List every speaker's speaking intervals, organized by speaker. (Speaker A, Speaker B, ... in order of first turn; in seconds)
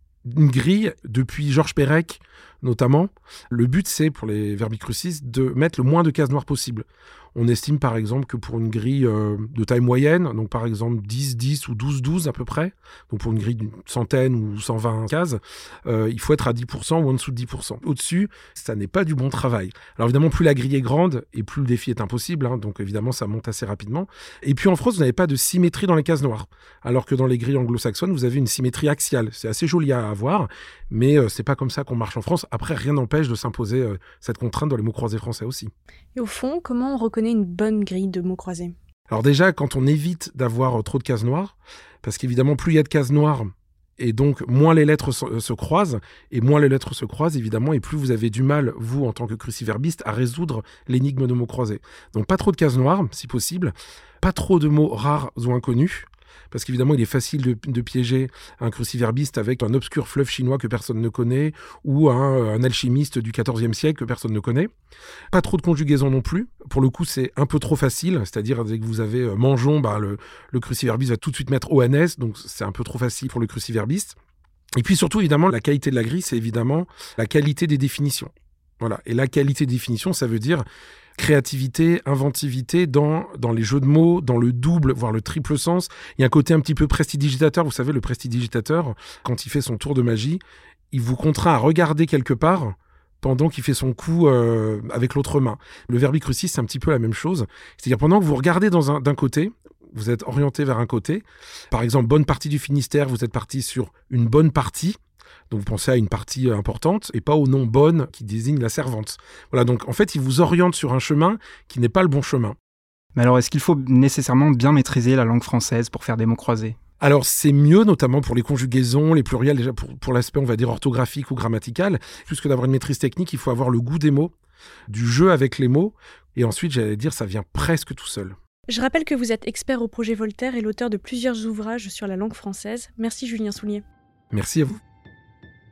Speaker A: 0.3-35.7, 39.1-64.7, 65.3-74.2, 74.8-80.6, 81.2-90.4, 90.9-105.0, 105.5-112.6, 117.0-124.3, 124.9-128.3, 134.3-134.8
Speaker B: 36.1-38.7, 128.7-133.8
Speaker C: 113.2-116.8